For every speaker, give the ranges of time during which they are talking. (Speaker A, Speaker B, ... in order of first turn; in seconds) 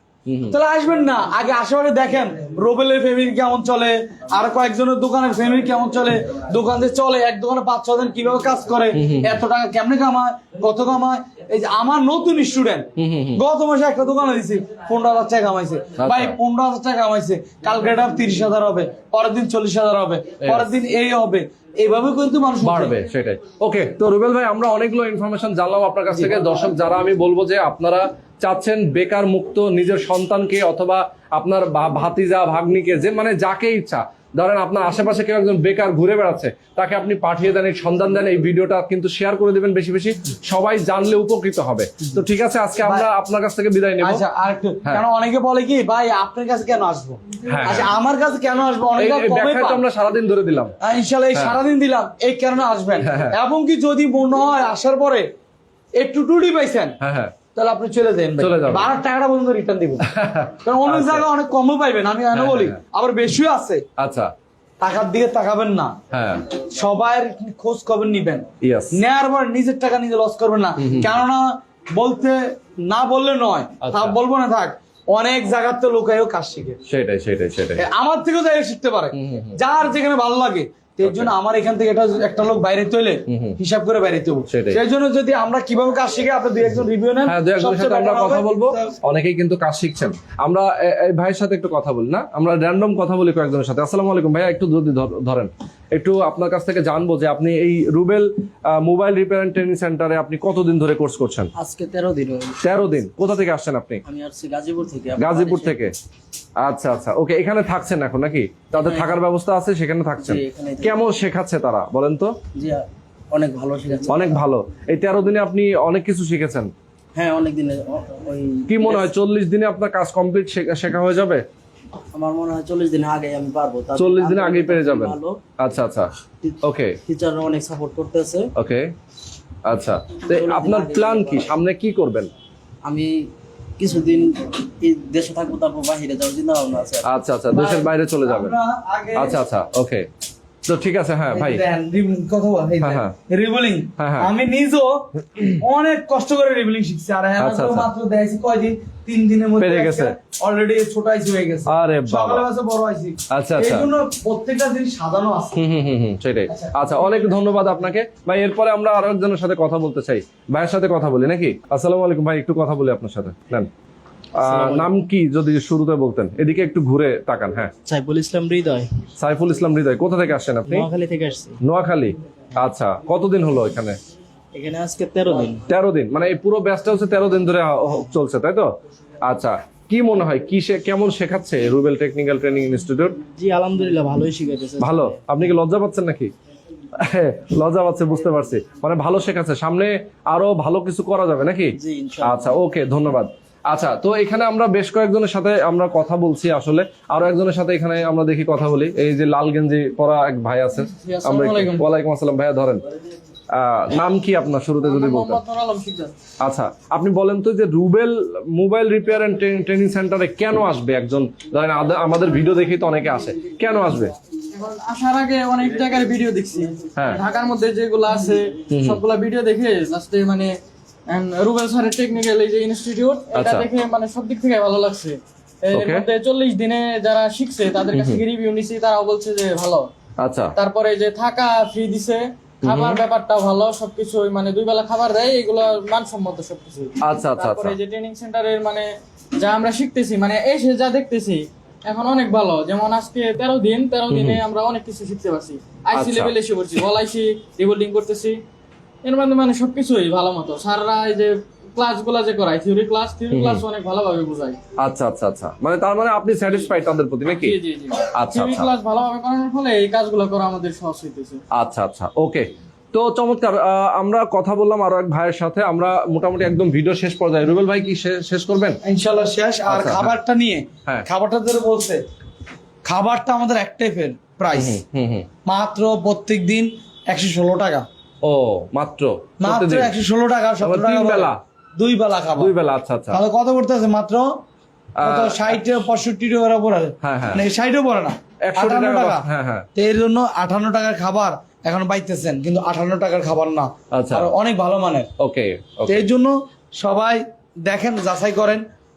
Speaker A: 0.2-0.6, 8.9-9.4, 13.0-13.4, 16.0-16.4, 20.4-20.7, 22.6-44.2, 47.5-47.9, 49.0-50.7, 53.0-53.4, 57.0-57.3, 58.4-58.9, 60.0-61.2, 62.3-62.8, 64.0-64.3, 66.1-66.5, 68.6-69.0, 70.8-71.1, 73.8-74.2, 76.9-77.8, 79.1-79.5, 81.0-81.3, 83.3-83.6, 84.5-84.8, 87.2-101.5, 102.6-104.0, 105.2-105.9, 106.6-112.3, 114.1-116.7, 118.7-121.4, 123.9-126.1, 126.6-127.0, 128.5-128.9, 129.7-132.3, 137.0-138.5, 139.2-140.1, 140.7-141.6, 142.8-143.1, 144.0-144.3, 147.4-147.9, 149.6-150.2, 151.7-152.4, 153.3-153.9, 155.6-163.7, 164.3-167.7, 169.2-170.9, 171.6-174.0, 175.7-178.7, 179.2-183.2, 184.8-186.3, 186.9-202.8, 203.5-205.4, 206.4-214.1, 216.9-217.2, 218.7-219.0, 223.3-223.7, 225.7-226.1, 227.9-228.2, 230.2-230.6, 232.6-233.0, 237.0-237.8, 244.1-244.4, 245.9-246.3, 253.3-253.6, 254.8-258.7, 261.5-268.8, 269.7-270.1, 274.5-275.3, 278.2-279.9, 280.6-281.4, 282.4-283.2, 285.0-285.6, 287.0-287.4, 288.4-289.6, 293.9-294.3, 295.2-296.0
Speaker B: 0.5-23.0, 42.8-43.1, 44.0-49.8, 50.8-55.3, 56.0-57.0, 57.5-60.0, 60.6-63.8, 64.8-66.0, 66.5-76.8, 77.8-88.9, 137.5-139.4, 141.3-155.6, 156.5-156.9, 268.8-272.0, 272.8-274.8, 275.4-277.9, 279.4-282.5, 283.1-284.3, 285.0-295.1, 295.9-298.6
Speaker C: 101.5-102.6, 104.0-105.8, 108.8-109.2, 110.2-111.0, 112.5-114.4, 117.2-119.1, 122.1-125.4, 126.4-128.5, 130.3-131.5, 132.8-137.1, 164.4-164.9, 167.9-168.9, 170.7-171.6, 174.5-175.6, 183.3-185.1, 191.8-192.6
Speaker D: 200.8-201.8, 204.8-206.1, 214.5-220.5, 221.1-229.9, 230.6-248.4, 249.0-254.6, 257.3-261.4